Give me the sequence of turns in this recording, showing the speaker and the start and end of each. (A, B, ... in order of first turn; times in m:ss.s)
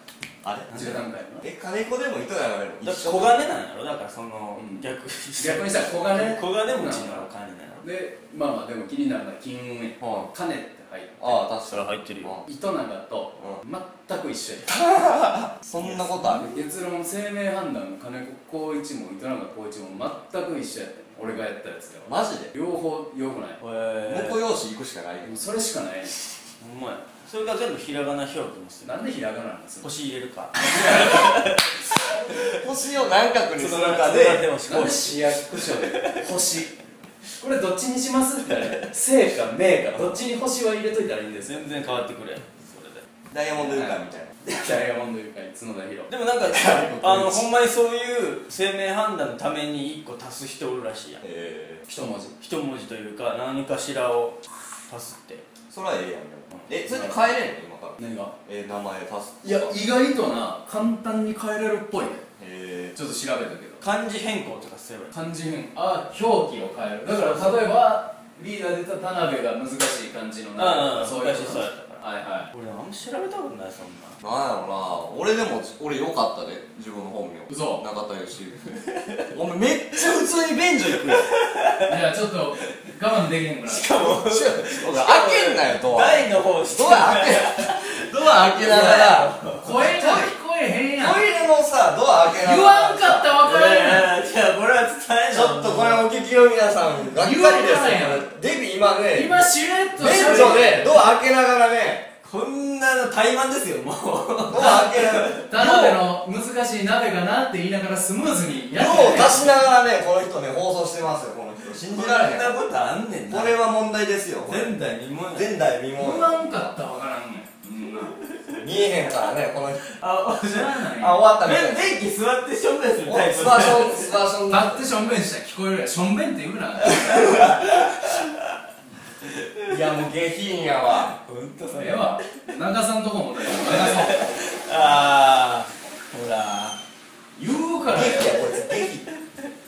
0:00.4-0:03.4 A
0:00.7-0:01.5 B
0:02.8-0:07.8 C
0:04.6-0:04.9 B
0:05.4-0:07.3 B
0:07.8-0:11.5 B
0:10.0-0:10.3 A
0:11.2-0:12.4 A
0:11.7-0:12.4 C
0:12.4-0:14.8 B
0:14.6-0:16.6 A
0:15.8-0:23.6 B
0:22.1-0:22.5 A
0:23.6-0:24.4 C
0:24.1-0:25.4 A
0:25.2-0:26.2 B
0:26.6-0:29.1 C
0:28.8-0:29.9 B
0:29.8-0:32.6 C
0:30.6-0:31.3 B
0:31.9-0:32.6 B
0:32.3-0:34.5 A
0:33.5-0:36.3 C
0:34.7-0:36.8 B
0:37.3-0:41.9 B
0:41.4-0:43.1 C
0:43.3-0:44.4 A
0:43.6-0:47.5 B
0:46.1-0:51.2 C
0:51.2-0:51.9 A
0:51.9-0:52.4 B
0:52.4-0:55.5 C
0:55.7-0:59.7 A
0:56.7-0:57.2 B
0:58.0-0:58.3 B
0:59.4-1:02.3 B
1:02.4-1:03.0 A
1:03.0-1:03.8 B
1:03.8-1:05.2 C
1:05.1-1:12.5 B
1:07.1-1:07.7 C
1:10.6-1:14.2 C
1:14.2-1:18.7 A
1:17.5-1:17.8 B
1:18.7-1:19.3 C
1:19.3-1:21.4 A
1:21.0-1:22.0 C
1:21.8-1:24.7 B
1:23.7-1:29.9 C
1:24.7-1:30.3 A
1:29.6-1:31.2 B
1:31.0-1:33.2 A
1:32.3-1:34.2 B
1:33.4-1:36.1 C
1:35.3-1:39.4 A
1:37.1-1:38.3 B
1:39.1-1:41.0 B
1:40.0-1:42.1 A
1:42.2-1:46.0 C
1:44.5-1:45.4 A
1:45.3-1:49.7 B
1:48.8-1:52.6 A
1:51.8-1:53.6 C
1:53.3-1:56.8 A
1:54.4-1:55.6 C
1:56.0-1:58.2 B
1:58.2-1:58.6 C
1:58.5-1:59.9 A
1:59.8-2:04.2 C
2:00.4-2:01.2 B
2:01.0-2:02.0 A
2:03.1-2:04.9 A
2:04.5-2:07.6 B
2:07.0-2:08.6 C
2:09.2-2:09.9 C
2:09.7-2:11.2 A
2:10.9-2:12.5 C
2:11.6-2:14.3 B
2:13.5-2:16.8 C
2:17.4-2:18.4 B
2:17.9-2:19.1 A
2:18.0-2:19.5 C